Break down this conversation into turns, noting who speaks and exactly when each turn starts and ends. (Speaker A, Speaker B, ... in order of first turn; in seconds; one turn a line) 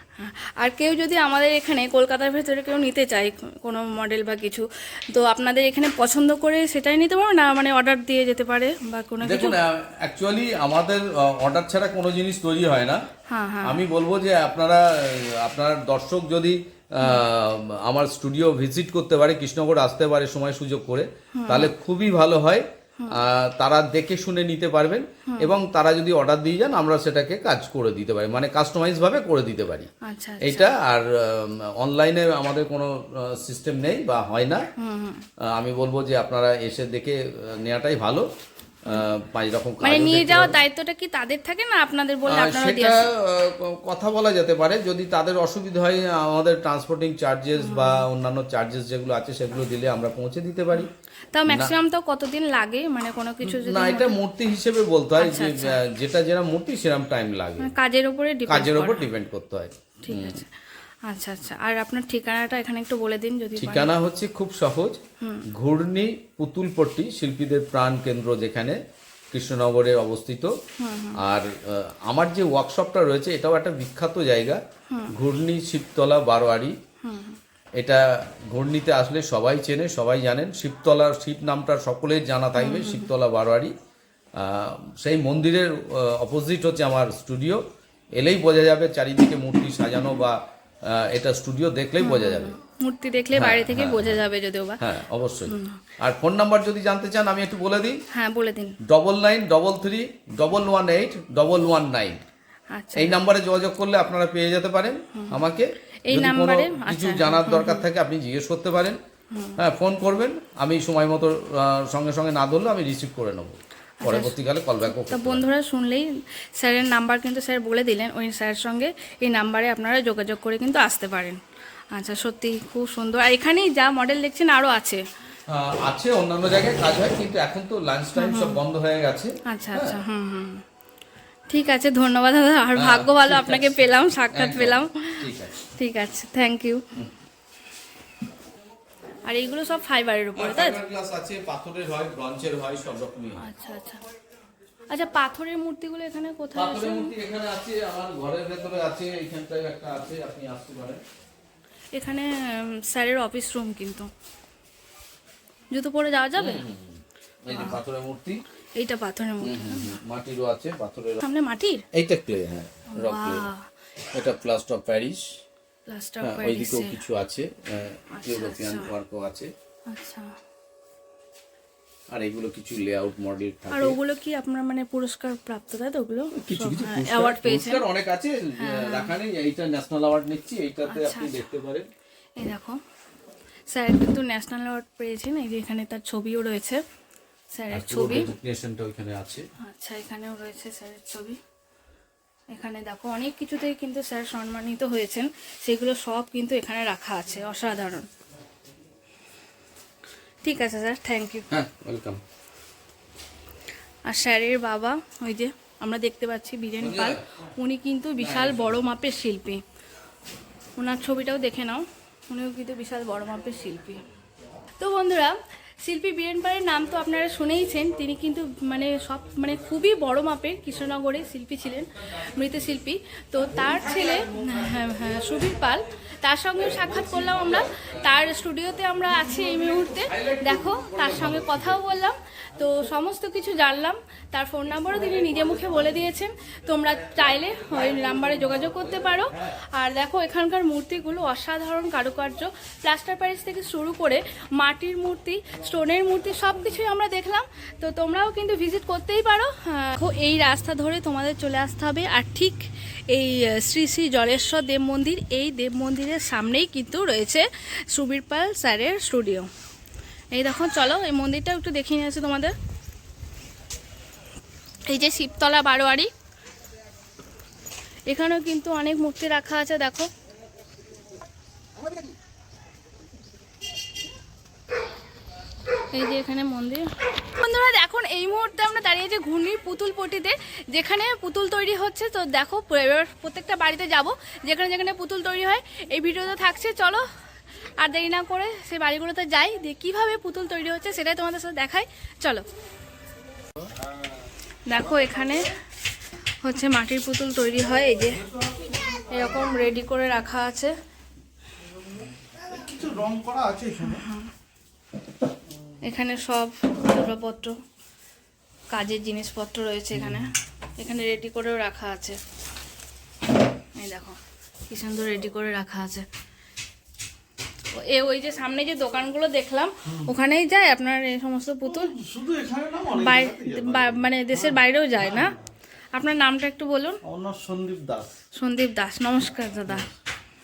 Speaker A: 0.2-9.6
Speaker B: 9.2-13.0
Speaker A: 13.3-13.8
Speaker B: 13.6-29.9
Speaker A: 21.4-21.7
Speaker A: 25.3-25.5
Speaker A: 30.1-30.7
Speaker B: 30.4-34.6
Speaker A: 34.8-35.2
Speaker B: 35.5-38.3
Speaker B: 38.9-40.6
Speaker A: 39.8-43.0
Speaker B: 42.3-50.9
Speaker A: 47.6-48.0
Speaker A: 50.8-54.1
Speaker B: 51.5-51.7
Speaker B: 53.5-57.7
Speaker A: 55.2-55.8
Speaker A: 57.6-59.1
Speaker B: 58.5-60.4
Speaker A: 60.0-60.5
Speaker A: 61.1-63.9
Speaker B: 63.6-65.0
Speaker B: 65.5-68.8
Speaker B: 69.3-70.5
Speaker A: 70.8-71.2
Speaker B: 71.2-74.6
Speaker B: 75.1-76.8
Speaker A: 77.0-77.4
Speaker B: 77.8-83.7
Speaker A: 82.6-83.1
Speaker B: 84.4-87.6
Speaker B: 88.2-92.5
Speaker A: 92.0-94.8
Speaker B: 93.3-94.2
Speaker B: 94.8-98.0
Speaker A: 95.5-95.8
Speaker A: 98.1-98.8
Speaker B: 98.8-102.2
Speaker A: 102.7-103.2
Speaker B: 103.0-109.0
Speaker A: 106.1-107.9
Speaker A: 109.3-109.6
Speaker B: 109.6-115.5
Speaker A: 114.0-121.4
Speaker A: 121.9-125.0
Speaker B: 125.5-130.0
Speaker A: 128.2-128.6
Speaker A: 129.5-130.6
Speaker A: 131.5-135.2
Speaker B: 132.8-135.6
Speaker A: 135.8-136.8
Speaker A: 139.2-140.8
Speaker B: 140.4-143.4
Speaker A: 143.4-144.0
Speaker A: 144.9-147.1
Speaker B: 146.6-151.0
Speaker A: 151.9-154.1
Speaker A: 155.7-156.6
Speaker B: 156.4-158.4
Speaker A: 157.5-157.8
Speaker A: 158.8-159.9
Speaker B: 159.4-161.2
Speaker A: 161.2-161.8
Speaker B: 161.9-163.5
Speaker A: 162.9-163.6
Speaker B: 164.1-165.3
Speaker A: 165.9-167.0
Speaker B: 166.2-169.5
Speaker A: 168.1-168.9
Speaker A: 169.9-170.3
Speaker B: 172.1-174.0
Speaker A: 173.7-177.8
Speaker B: 176.3-181.9
Speaker A: 178.6-179.1
Speaker A: 180.9-181.4
Speaker A: 182.4-182.8
Speaker A: 183.7-186.8
Speaker A: 187.5-188.3
Speaker B: 187.7-189.5
Speaker A: 189.6-191.4
Speaker A: 192.5-198.1
Speaker A: 200.4-201.5
Speaker B: 201.5-202.2
Speaker A: 204.1-209.6
Speaker B: 206.8-207.2
Speaker B: 208.2-208.8
Speaker A: 210.8-214.0
Speaker A: 214.8-259.5
Speaker B: 227.0-228.1
Speaker B: 230.1-231.7
Speaker B: 239.1-239.5
Speaker A: 260.3-262.5
Speaker A: 264.9-266.1
Speaker A: 268.1-270.1
Speaker A: 275.9-287.0
Speaker A: 287.8-292.4
Speaker A: 294.7-295.4
Speaker A: 296.4-298.2
Speaker A: 299.1-300.7
Speaker C: 302.4-304.0
Speaker A: 303.8-304.3
Speaker A: 305.9-307.6
Speaker A: 308.7-312.2
Speaker A: 313.8-314.2
Speaker A: 314.7-316.1
Speaker A: 317.8-321.9
Speaker C: 321.6-325.4
Speaker A: 322.9-325.4
Speaker A: 325.9-327.0
Speaker C: 327.0-328.1
Speaker A: 328.4-329.9